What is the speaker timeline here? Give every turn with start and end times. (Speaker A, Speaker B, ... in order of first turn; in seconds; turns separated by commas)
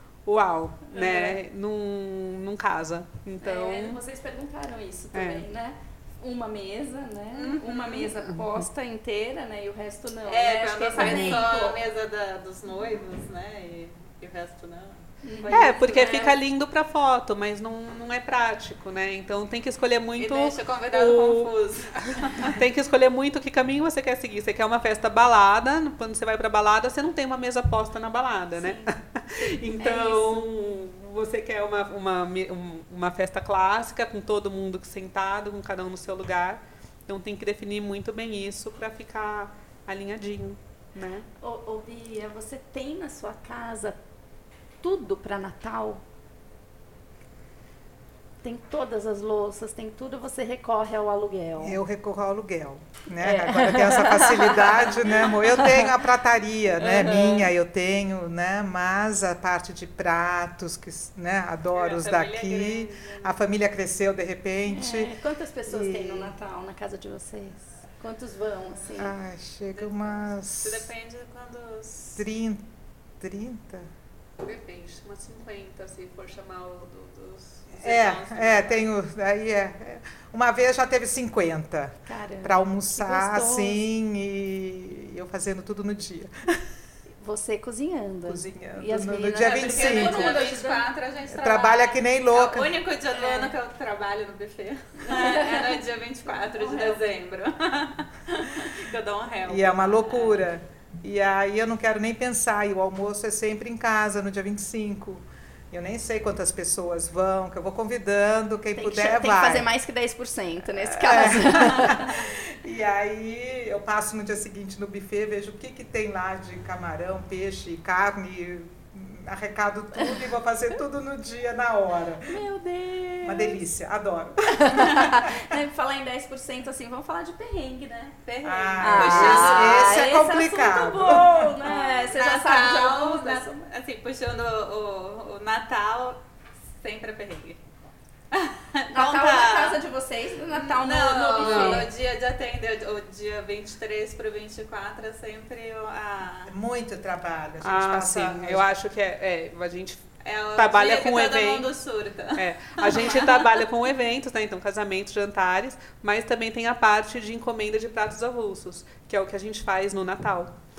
Speaker A: 0.2-4.0, Speaker B: 0.9-1.4, Speaker B: 3.4-11.8, Speaker A: 5.1-5.5, Speaker C: 7.5-8.0, Speaker A: 7.8-8.6, Speaker C: 10.2-16.2, Speaker A: 11.0-11.4, Speaker B: 15.2-16.4, Speaker A: 15.5-41.3, Speaker C: 20.2-22.6, Speaker B: 28.6-30.5, Speaker B: 41.4-44.0, Speaker B: 44.8-46.0, Speaker B: 48.4-51.8, Speaker D: 51.6-65.1, Speaker B: 53.2-55.9, Speaker B: 56.8-57.5, Speaker C: 61.7-63.4, Speaker B: 64.7-69.1, Speaker D: 65.7-66.3, Speaker D: 69.0-70.9, Speaker C: 69.7-72.2, Speaker D: 72.2-72.7, Speaker D: 73.2-73.9, Speaker A: 74.4-77.7, Speaker D: 77.7-86.6, Speaker C: 77.8-78.9, Speaker B: 82.1-83.8, Speaker B: 87.2-90.9, Speaker D: 88.3-90.4, Speaker C: 89.4-100.5, Speaker D: 91.3-92.8, Speaker B: 93.1-93.5, Speaker B: 95.0-95.8, Speaker B: 96.6-97.0, Speaker D: 99.5-109.7, Speaker B: 108.8-112.2, Speaker D: 110.8-122.4, Speaker B: 122.3-123.6, Speaker D: 123.2-125.5, Speaker B: 124.6-128.2, Speaker C: 128.2-130.0, Speaker D: 128.4-131.6, Speaker B: 128.8-133.7, Speaker C: 131.6-136.2, Speaker C: 136.7-137.6, Speaker C: 138.3-139.8, Speaker B: 138.9-141.9, Speaker C: 140.5-146.5, Speaker A: 141.4-141.9, Speaker D: 146.5-148.7, Speaker A: 147.6-151.7, Speaker C: 150.2-153.6, Speaker A: 152.3-160.5